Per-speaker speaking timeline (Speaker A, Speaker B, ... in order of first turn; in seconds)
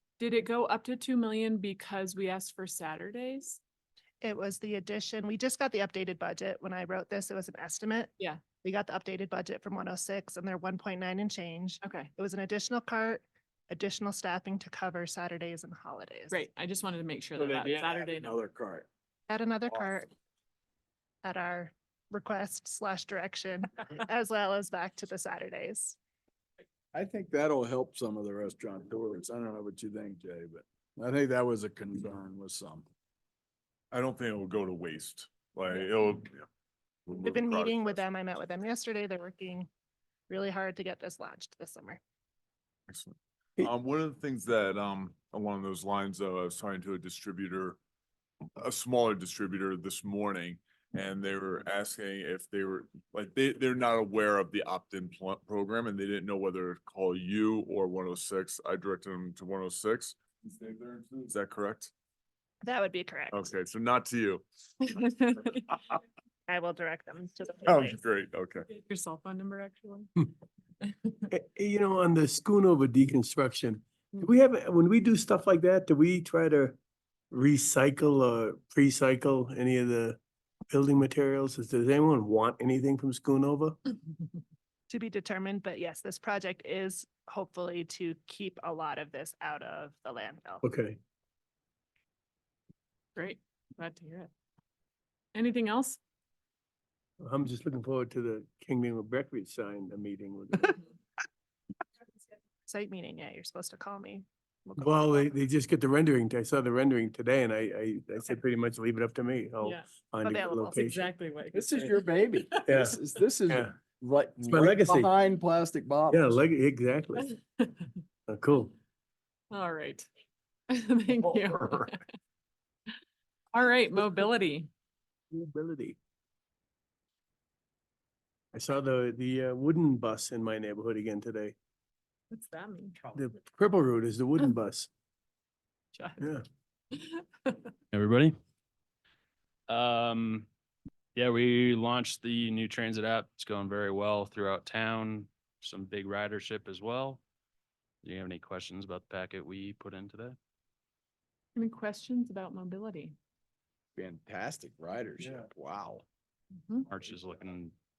Speaker A: 0.2-3.6, 11.8-12.1, 16.3-18.4, 64.9-65.7, 68.7-70.1, 70.9-71.2, 93.2-94.3, 95.3-96.0, 109.6-109.9, 110.7-112.8, 117.2-117.9, 119.5-120.1, 120.7-122.0, 123.5-124.7, 132.3-133.0, 135.9-136.3, 136.9-137.7, 151.6-153.2, 156.6-156.9
Speaker B: 4.2-8.1, 8.6-16.4, 19.3-20.1, 21.2-26.0, 37.2-39.7, 40.3-42.0, 62.6-63.5, 66.5-68.0, 84.9-90.6, 102.7-105.2, 110.2-111.0
Speaker C: 17.4-18.9, 26.9-32.9, 111.5-116.4, 154.0-156.1
Speaker D: 33.9-36.4, 37.1-38.0, 42.9-47.8, 48.6-61.9, 63.3-64.4, 67.7-68.7
Speaker E: 71.3-76.8, 77.3-83.8, 90.6-91.0, 97.2-100.8, 104.8-111.1, 112.7-113.7, 114.4-115.1, 116.1-117.3, 118.3-118.7, 125.3-126.0, 128.5-131.6, 133.1-134.9
Speaker F: 137.9-138.3, 139.7-140.5, 141.2-147.2, 148.0-150.4, 156.9-157.7